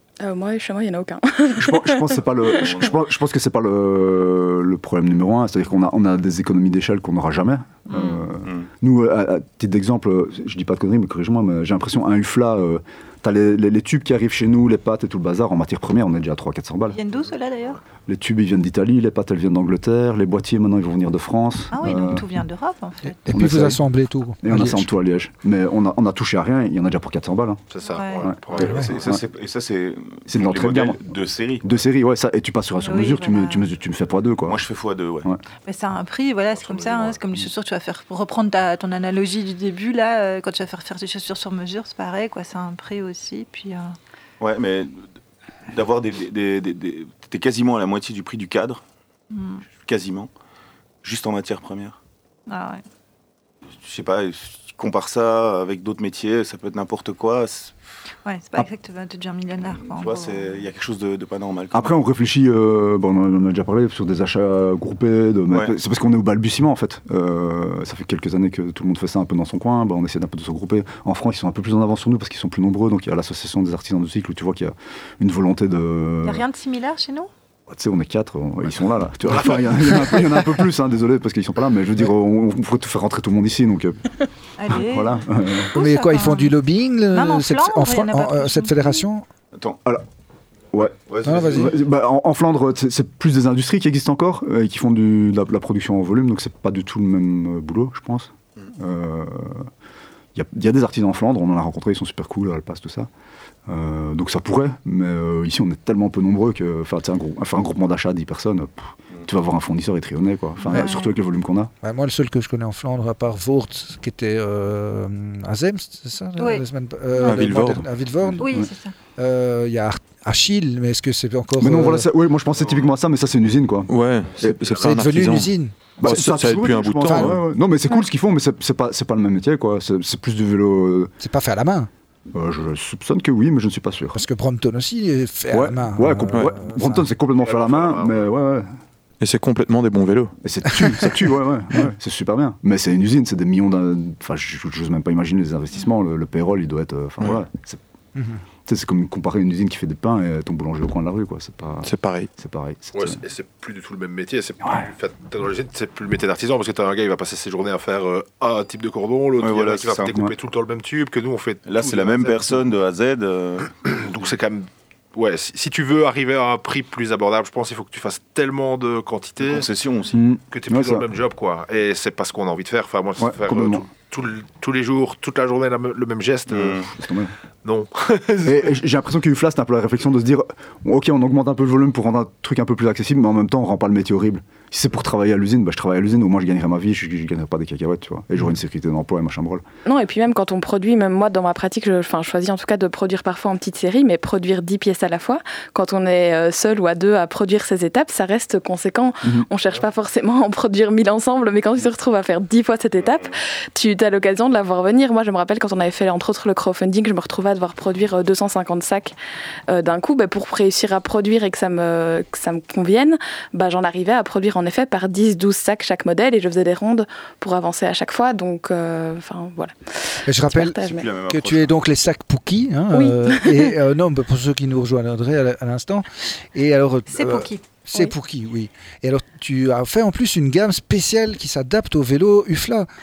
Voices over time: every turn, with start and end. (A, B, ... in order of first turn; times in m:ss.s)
0:00.2-0:02.7 A
0:01.6-0:17.0 B
0:02.7-0:03.0 C
0:07.9-0:08.2 D
0:16.9-0:17.8 D
0:18.1-0:22.2 B
0:21.7-0:23.3 D
0:23.2-0:24.9 E
0:23.3-0:23.8 B
0:24.4-0:27.6 B
0:27.7-0:28.9 F
0:27.9-0:28.3 D
0:28.2-0:29.2 B
0:28.6-0:31.8 C
0:30.3-0:31.1 B
0:31.6-0:34.6 B
0:32.8-0:33.6 D
0:34.5-0:35.3 C
0:35.7-0:44.0 D
0:36.7-0:37.2 C
0:44.4-0:45.1 C
0:45.7-0:48.8 C
0:49.3-0:49.6 D
0:49.8-0:50.3 C
0:51.0-0:52.0 C
0:52.5-0:52.8 D
0:53.8-0:57.8 C
0:58.2-1:00.4 D
0:59.8-1:02.0 C
1:01.7-1:16.4 B
1:05.5-1:05.7 C
1:16.2-1:17.3 D
1:17.7-1:24.0 B
1:24.6-1:26.6 D
1:24.7-1:25.7 B
1:25.7-1:29.3 E
1:27.1-1:29.1 D
1:30.7-1:39.7 B
1:30.8-1:31.9 C
1:31.2-1:31.7 E
1:40.4-1:43.1 B
1:43.7-1:51.7 B
1:50.6-1:51.1 D
1:51.8-2:02.1 E
1:56.4-1:57.4 D
1:57.2-1:57.8 G
1:58.4-1:59.0 D
1:58.4-1:58.7 B
2:01.6-2:04.8 B
2:03.9-2:07.4 G
2:04.8-2:05.8 E
2:06.0-2:11.1 B
2:07.1-2:07.4 E
2:11.2-2:11.9 E
2:12.3-2:14.2 B
2:14.1-2:17.1 E
2:15.5-2:18.7 B
2:17.4-2:18.3 F
2:19.2-2:20.3 G
2:20.4-2:27.8 B
2:20.7-2:21.1 E
2:28.7-2:33.2 B
2:31.8-2:32.3 G
2:32.9-2:42.6 F
2:39.4-2:40.2 C
2:41.6-2:43.8 C
2:43.8-2:49.7 F
2:49.4-2:50.2 C
2:50.1-2:51.1 B
2:50.5-2:56.8 F
2:53.2-2:53.8 B
2:56.5-2:56.9 C
2:57.0-2:57.3 B
2:57.6-2:58.8 F
2:58.4-3:09.6 B
3:09.9-3:29.1 A
3:29.7-3:41.1 A
3:40.3-3:52.9 E
3:40.8-3:41.8 C
3:42.9-3:43.8 A
3:47.1-3:47.6 D